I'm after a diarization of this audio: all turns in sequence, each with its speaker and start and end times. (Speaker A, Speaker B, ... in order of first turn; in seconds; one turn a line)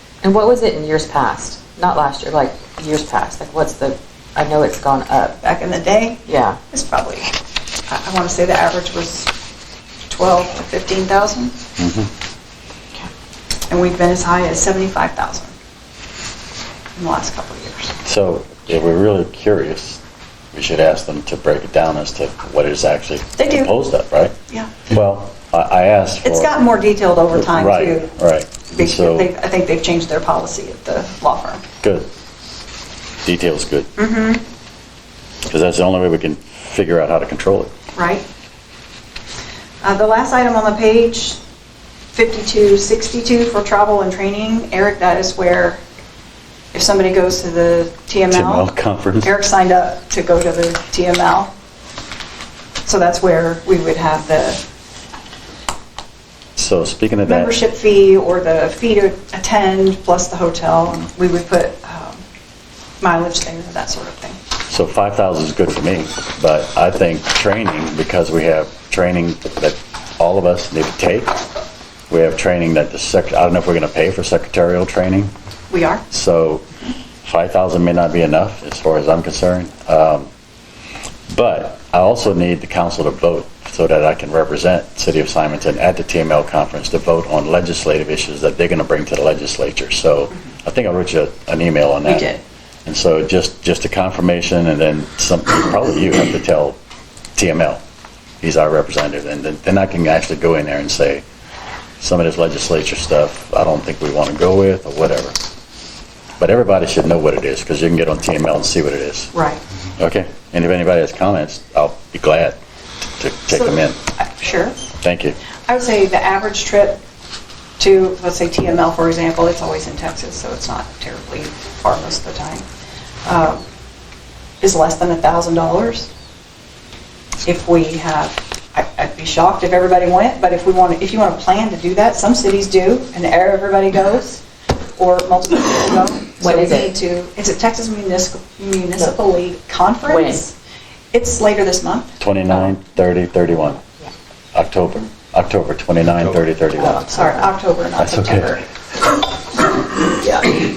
Speaker A: 0.2-5.4
Speaker B: 5.4-7.3
Speaker A: 6.3-6.6
Speaker B: 7.9-9.3
Speaker B: 10.1-11.6
Speaker C: 11.8-12.1
Speaker B: 13.7-15.5
Speaker B: 16.9-17.9
Speaker C: 18.0-20.0
Speaker C: 20.5-26.5
Speaker B: 23.4-23.7
Speaker B: 26.2-28.1
Speaker C: 27.3-29.3
Speaker B: 28.7-31.6
Speaker C: 31.8-32.1
Speaker C: 33.2-33.9
Speaker B: 34.0-34.4
Speaker C: 35.4-37.7
Speaker B: 37.9-38.2
Speaker B: 39.8-41.4
Speaker B: 42.1-45.8
Speaker B: 46.7-48.7
Speaker C: 48.3-49.3
Speaker B: 49.2-51.5
Speaker B: 52.8-54.6
Speaker C: 56.6-57.6
Speaker B: 57.2-62.2
Speaker B: 63.0-64.4
Speaker C: 64.7-71.3
Speaker C: 72.1-75.3
Speaker B: 75.7-76.0
Speaker C: 76.1-76.6
Speaker C: 77.2-80.3
Speaker C: 81.3-92.3
Speaker B: 92.0-92.4
Speaker C: 92.8-96.8
Speaker C: 97.3-97.8
Speaker C: 98.4-101.2
Speaker C: 102.0-105.3
Speaker C: 106.4-109.3
Speaker B: 109.3-109.6
Speaker C: 110.0-112.6
Speaker C: 113.2-114.0
Speaker B: 113.5-114.9
Speaker C: 115.0-115.3
Speaker B: 115.7-117.0
Speaker B: 117.8-122.7
Speaker B: 123.2-123.6
Speaker B: 124.6-126.1
Speaker B: 127.4-134.4
Speaker B: 135.0-140.5
Speaker A: 136.4-136.9
Speaker A: 140.1-140.4
Speaker B: 141.1-142.1
Speaker C: 142.2-143.8
Speaker C: 144.5-147.3
Speaker A: 146.8-147.5
Speaker B: 147.1-148.6
Speaker C: 148.0-148.6
Speaker B: 150.0-150.5